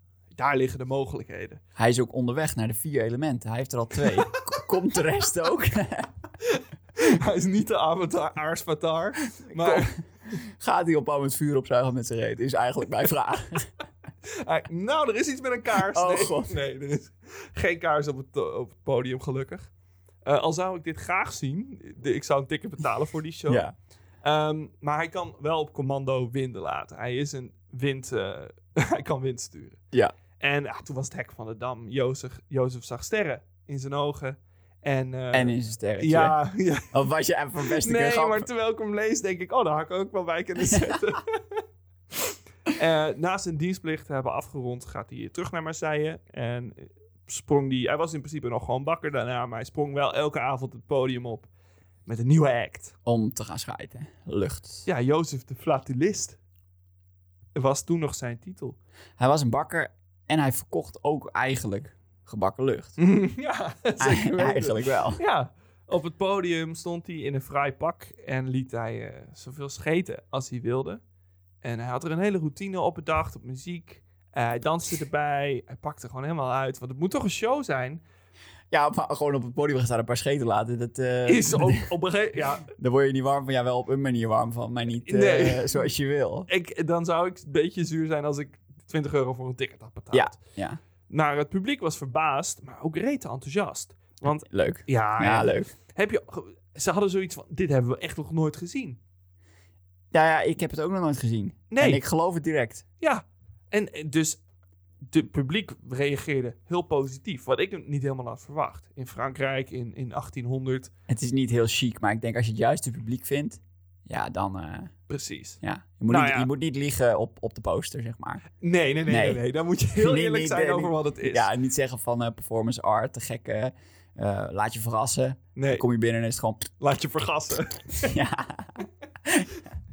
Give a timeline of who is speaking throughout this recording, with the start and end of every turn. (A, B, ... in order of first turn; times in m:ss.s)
0:00.4-0:01.6 A
0:01.8-0:06.1 B
0:04.1-0:04.6 A
0:06.4-0:10.0 A
0:09.4-0:13.7 B
0:14.4-0:19.7 A
0:15.9-0:16.5 B
0:20.2-0:23.6 A
0:23.5-0:23.7 B
0:24.2-0:29.8 A
0:30.4-0:36.9 A
0:35.3-0:36.4 B
0:36.9-0:38.5 B
0:37.7-0:41.6 A
0:40.6-0:40.9 B
0:42.2-0:51.5 A
0:52.0-0:52.9 A
0:53.0-0:54.8 B
0:54.9-0:56.4 A
0:57.5-0:58.8 A
0:59.2-1:03.0 B
1:03.0-1:11.0 A
1:04.0-1:05.2 B
1:11.6-1:18.0 A
1:18.7-1:21.9 B
1:21.2-1:22.7 A
1:22.8-1:26.5 B
1:25.0-1:25.9 A
1:26.5-1:30.4 A
1:30.1-1:30.8 B
1:31.1-1:39.0 A
1:34.3-1:35.7 B
1:40.1-1:42.8 B
1:41.7-1:42.0 A
1:43.0-1:44.4 A
1:45.0-1:50.9 A
1:51.1-1:54.9 B
1:55.1-1:56.5 A
1:55.6-1:58.4 B
1:58.6-2:01.5 A
1:59.1-1:59.4 B
2:00.0-2:06.7 B
2:05.6-2:05.8 A
2:06.8-2:08.2 A
2:08.0-2:09.6 B